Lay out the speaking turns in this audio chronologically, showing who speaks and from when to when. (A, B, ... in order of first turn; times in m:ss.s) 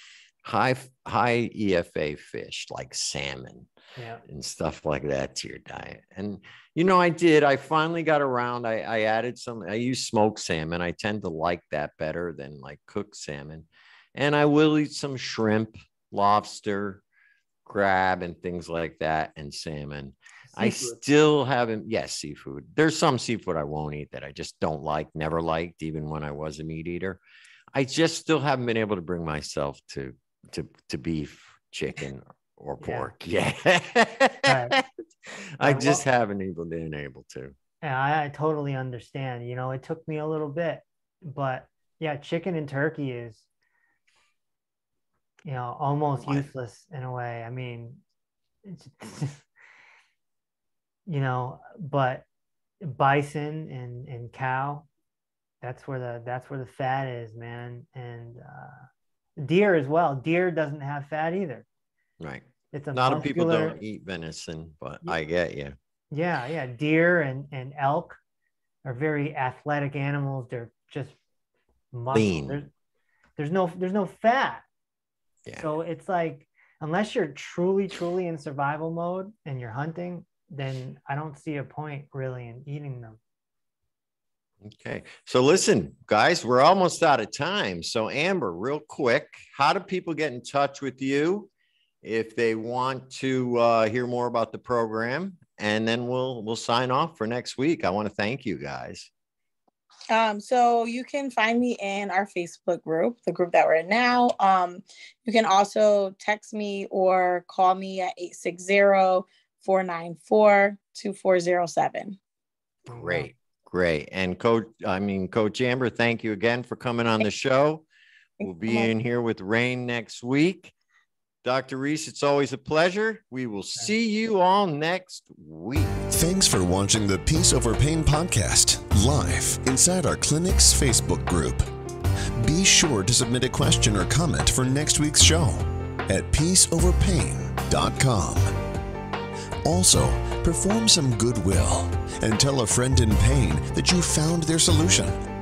0:00.4-0:03.7 A
0:04.0-0:04.2 B
0:04.2-0:17.0 A
0:17.6-0:27.2 A
0:20.5-0:21.0 B
0:27.7-0:34.9 A
0:32.8-0:33.1 B
0:34.4-0:34.8 B
0:35.6-0:37.6 A
0:35.6-0:36.0 B
0:37.8-0:43.4 B
0:45.4-0:48.0 B
0:46.2-0:46.5 A
0:48.6-0:49.5 B
0:51.1-0:52.2 B
0:52.8-0:54.9 B
0:55.6-1:01.6 B
1:02.2-1:05.7 A
1:02.7-1:03.8 B
1:06.1-1:08.2 B
1:08.8-1:11.2 B
1:11.9-1:12.7 B
1:12.1-1:12.6 A
1:13.4-1:14.6 B
1:15.6-1:23.2 B
1:24.6-1:31.5 A
1:32.0-1:39.1 A
1:40.1-1:52.2 C
1:52.9-1:53.3 B
1:52.9-1:57.8 A
1:58.4-2:00.7 A
1:58.4-1:58.9 C
2:01.4-2:06.1 A
2:06.1-2:11.6 D
2:12.4-2:18.5 D
2:19.6-2:25.2 D